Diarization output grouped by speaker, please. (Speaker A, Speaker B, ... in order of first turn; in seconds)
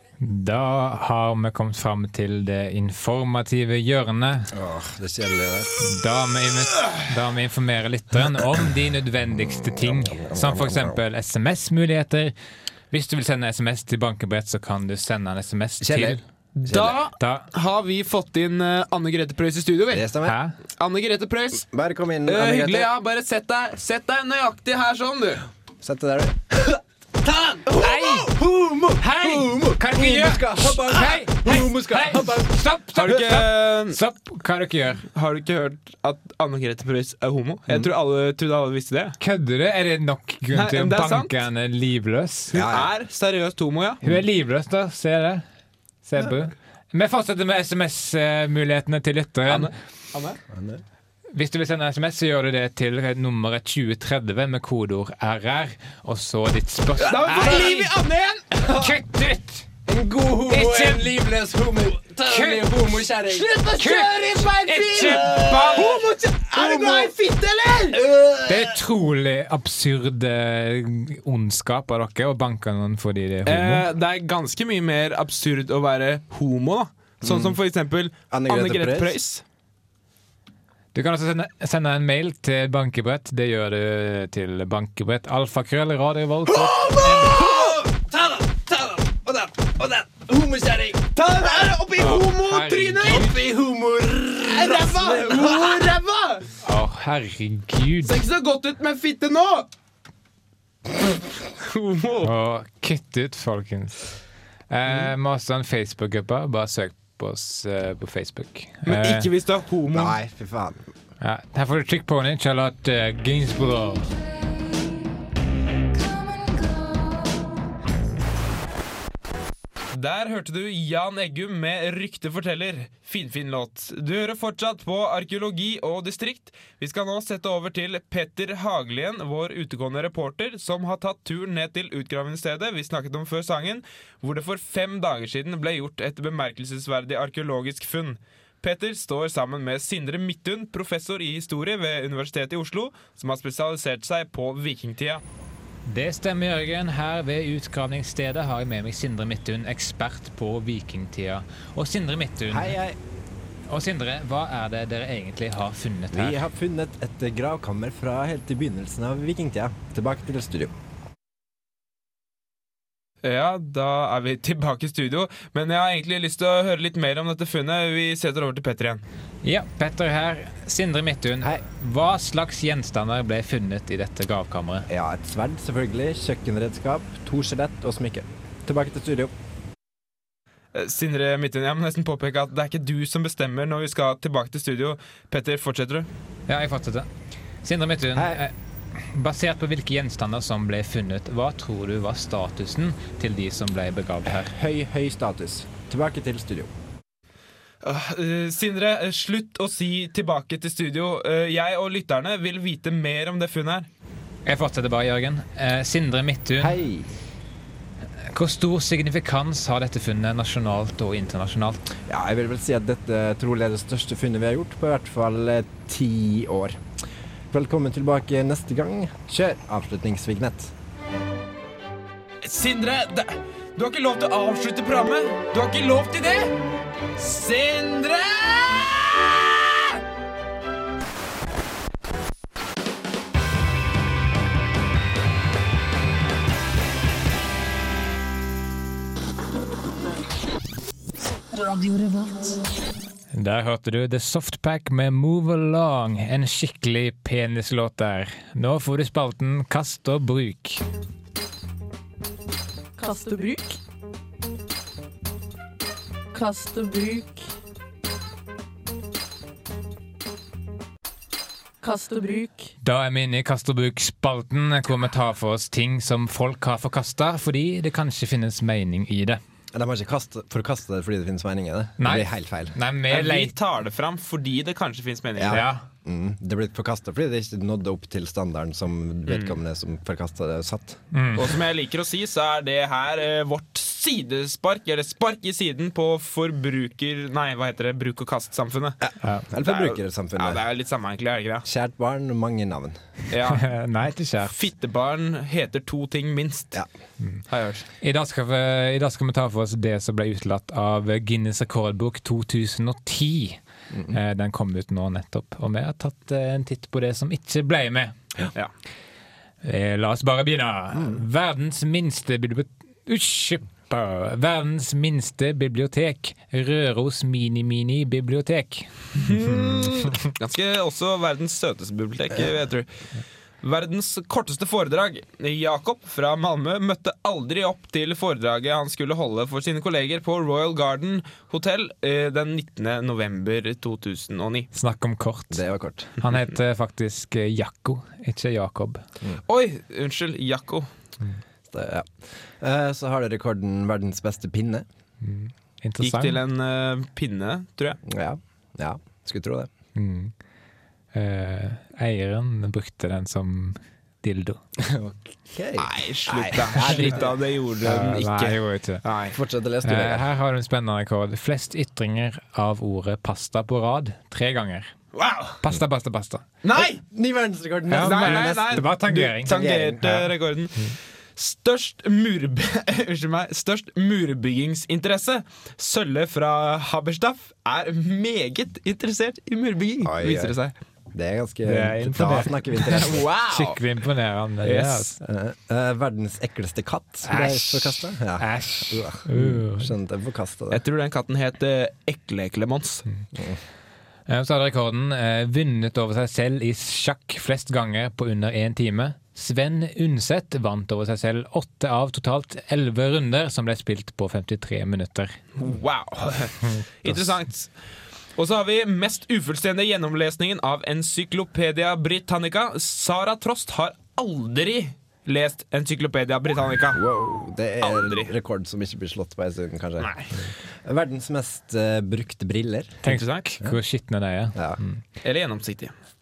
Speaker A: 0.2-4.5, 5.8-12.3, 12.9-16.2, 17.2-17.5, 20.2-20.6, 27.7-28.3, 29.0-35.0, 39.2-42.6, 44.0-45.4, 46.0-49.7, 51.3-57.9, 58.7-59.7, 60.5-61.1, 62.3-63.0, 63.8-65.9, 68.5-73.9, 80.9-87.4, 92.0-93.4, 96.6-98.2, 102.2-104.1, 104.7-109.3, 111.2-114.1, 145.9-152.8, 153.7-156.4, 169.4-174.9, 186.5-187.1, 187.6-194.5, 204.5-206.8, 208.3-211.9, 243.3-250.8, 262.8-269.4, 272.0-273.5, 275.5-275.8, 281.1-281.5, 293.5-294.6, 298.0-308.1, 309.6-319.5, 334.7-335.6, 336.2-339.0, 345.2-346.4, 350.0-350.3, 351.1-354.6, 357.8-359.0, 359.8-364.9, 365.6-366.4, 367.9-369.6, 381.7-385.1, 387.2-389.9, 394.3-405.4, 423.0-425.0
Speaker B: 4.5-5.8, 9.3-11.0, 15.8-17.0, 19.9-20.4, 21.7-22.9, 25.8-32.5, 42.5-42.9, 50.5-50.8, 57.3-57.7, 59.9-68.8, 77.2-77.6, 78.3-79.2, 86.5-91.8, 93.1-95.9, 109.9-110.9, 152.5-153.0, 156.1-160.7, 174.9-179.3, 188.2-188.4, 194.3-196.7, 206.6-207.1, 212.0-216.8, 217.5-220.7, 269.7-272.8, 275.4-281.0, 289.1-290.6, 291.6-293.0, 335.5-336.1, 341.7-344.9, 348.1-349.7, 354.8-357.3, 359.3-360.3, 366.8-370.3, 380.0-380.6, 381.1-383.3, 385.2-390.8, 393.3-393.6, 416.9-423.0, 424.6-424.8
Speaker C: 16.6-20.1, 20.8-21.6, 22.3-25.4, 33.0-34.0, 35.1-39.2, 40.5-41.3, 42.5-44.0, 49.5-50.4, 57.0-58.6, 63.3-68.0, 73.5-79.4, 87.3-87.7, 91.2-93.4, 94.4-96.5, 98.0-99.7, 101.6-102.3, 108.9-110.2, 119.9-145.2, 163.2-169.0, 180.7-186.1, 197.8-203.9, 222.4-226.6, 227.2-229.6, 273.1-275.6, 279.3-279.6, 281.4-289.0, 289.6-291.6, 293.3-293.7, 294.5-296.8, 297.5-297.9, 319.2-322.9, 323.6-334.7, 339.5-340.9, 346.0-348.0, 355.8-359.4, 365.1-365.6, 366.6-367.0, 368.0-380.7, 382.9-383.8, 384.6-385.1, 390.7-393.1, 405.6-407.7, 408.4-417.0, 417.8-418.3, 423.1-423.4, 425.2-425.9
Speaker D: 114.1-115.1, 115.9-117.6, 241.7-242.3
Speaker E: 253.0-253.8, 256.3-257.5, 261.8-262.7